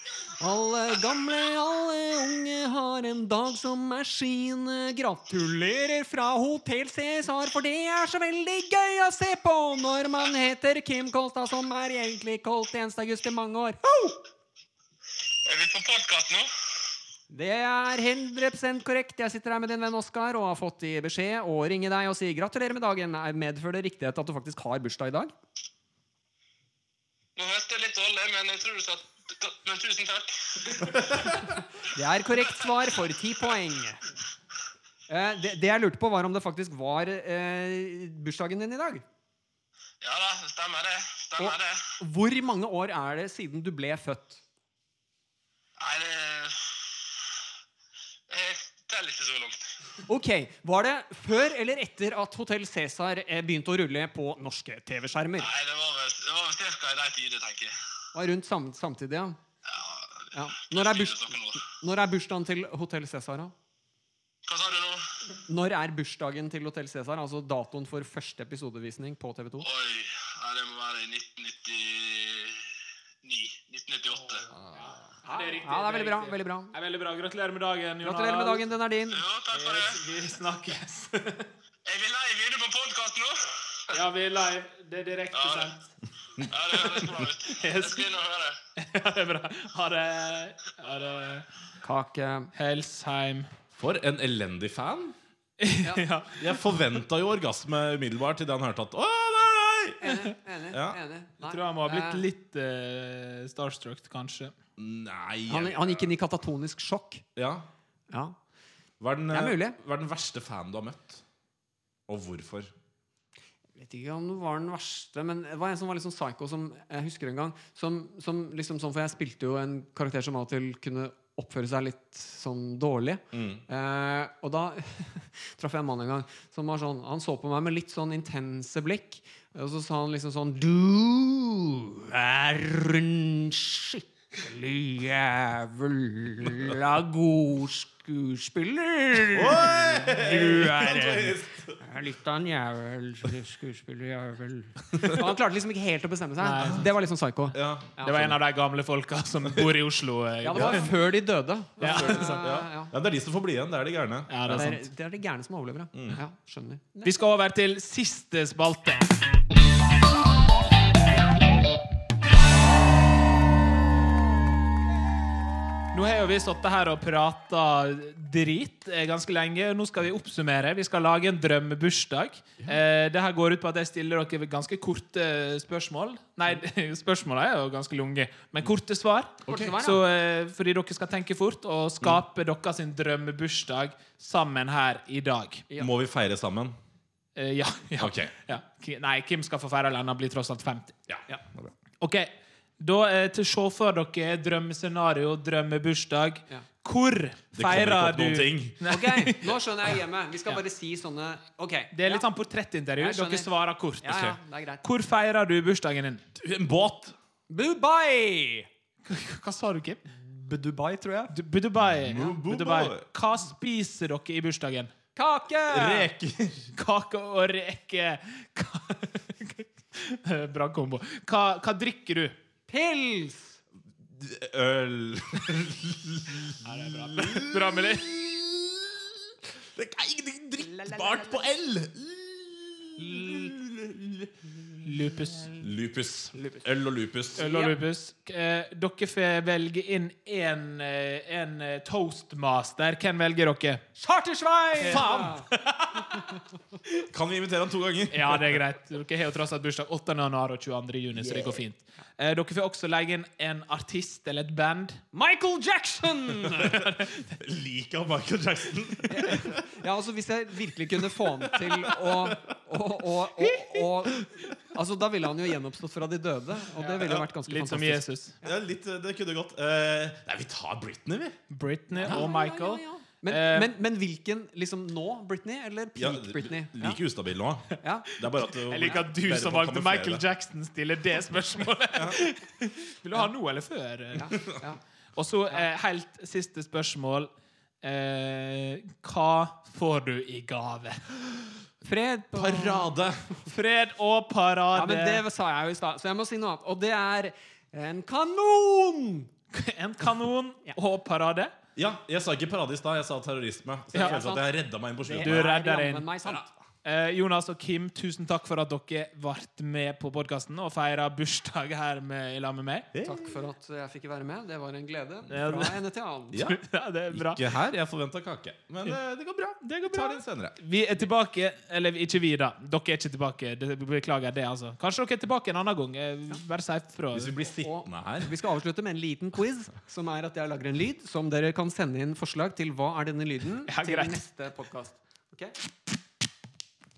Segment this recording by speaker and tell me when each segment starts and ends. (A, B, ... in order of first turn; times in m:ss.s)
0:00.4-0:14.2 A
0:15.4-0:16.5 B
0:17.3-0:25.3 A
0:27.4-0:31.6 B
0:31.9-0:34.0 A
0:35.1-0:39.0 A
0:40.0-0:42.0 B
0:41.4-0:44.4 A
0:45.8-0:47.4 B
0:48.3-0:49.7 B
0:50.1-0:55.5 A
0:55.4-0:57.7 B
0:58.1-0:59.4 A
0:59.7-1:01.6 B
1:00.3-1:03.5 A
1:04.4-1:05.2 B
1:05.4-1:09.7 A
1:09.6-1:14.4 B
1:14.2-1:18.7 C
1:14.5-1:14.9 D
1:15.3-1:16.7 A
1:18.0-1:19.2 A
1:19.1-1:20.0 B
1:19.5-1:21.5 C
1:21.8-1:24.0 B
1:23.9-1:25.8 C
1:25.3-1:25.7 B
1:26.4-1:28.6 B
1:26.8-1:28.1 C
1:28.8-1:31.4 C
1:31.8-1:32.5 A
1:32.5-1:33.5 C
1:33.7-1:35.1 D
1:35.6-1:36.6 C
1:36.4-1:40.1 D
1:40.0-1:42.2 A
1:40.7-1:41.0 D
1:41.4-1:44.5 C
1:44.8-1:46.1 D
1:45.5-1:47.2 A
1:47.4-1:47.7 D
1:48.1-1:48.4 A
1:49.0-1:51.2 D
1:49.3-1:49.8 A
1:52.1-1:52.7 D
1:53.8-2:28.3 A
2:03.3-2:03.6 D
2:19.3-2:21.8 D
2:24.9-2:25.2 D
2:26.4-2:26.8 C
2:27.5-2:28.0 D
2:28.0-2:30.9 C
2:30.4-2:32.9 A
2:30.5-2:30.9 D
2:31.8-2:32.4 C
2:31.8-2:34.8 D
2:34.3-2:34.8 C
2:34.5-2:37.2 A
2:35.9-2:36.2 D
2:37.0-2:39.0 C
2:45.9-3:05.6 C
2:59.4-2:59.7 D
2:59.5-3:00.0 A
3:05.7-3:06.8 D
3:07.4-3:11.0 C
3:08.0-3:08.3 D
3:11.1-3:11.7 D
3:12.0-3:19.5 C
3:17.5-3:18.8 D
3:18.9-3:22.3 A
3:21.9-3:24.3 C
3:23.0-3:23.5 A
3:24.0-3:24.8 A
3:24.1-3:24.4 D
3:24.8-3:26.2 C
3:26.4-3:27.2 D
3:27.5-3:28.7 A
3:29.0-3:30.0 C
3:30.1-3:31.3 A
3:31.3-3:34.9 C
3:32.0-3:33.0 D
3:35.1-3:36.1 A
3:35.7-3:36.7 D
3:36.7-3:42.3 C
3:42.7-3:43.6 A
3:44.1-3:54.8 D
3:46.6-3:48.2 C
3:50.7-3:51.1 A
3:53.0-3:53.6 A
3:54.8-3:55.5 C
3:55.5-3:57.5 D
3:56.3-3:56.6 A
3:57.4-3:57.8 A
3:57.4-4:03.8 C
4:04.0-4:05.5 A
4:04.8-4:06.4 C
4:04.8-4:05.4 D
4:07.0-4:08.6 D
4:08.1-4:15.0 C
4:11.2-4:11.6 A
4:15.1-4:16.9 A
4:16.5-4:19.6 D
4:19.1-4:28.6 A
4:21.2-4:22.5 D
4:26.8-4:28.4 C
4:27.0-4:27.2 D
4:28.4-4:31.4 D
4:31.5-4:33.7 C
4:31.9-4:37.0 A
4:32.0-4:32.3 D
4:36.0-4:40.2 D
4:37.8-4:38.1 A
4:38.2-4:44.6 C
4:38.7-4:39.0 A
4:41.9-4:42.2 D
4:44.1-4:44.8 A
4:45.1-4:47.3 C
4:47.8-4:51.0 C
4:51.8-4:52.9 A
4:52.3-4:53.3 D
4:53.4-4:55.2 C
4:54.7-4:59.3 A
4:59.5-5:01.5 C
5:01.8-5:05.5 D
5:03.9-5:04.2 C
5:03.9-5:04.5 A
5:05.0-5:06.6 A
5:05.1-5:06.1 C
5:06.8-5:12.9 C
5:12.9-5:13.3 D
5:13.0-5:16.4 A
5:15.3-5:15.8 C
5:16.3-5:20.6 D
5:16.4-5:17.4 C
5:19.6-5:27.4 C
5:27.1-5:28.3 D
5:27.6-5:35.5 A
5:33.7-5:34.2 C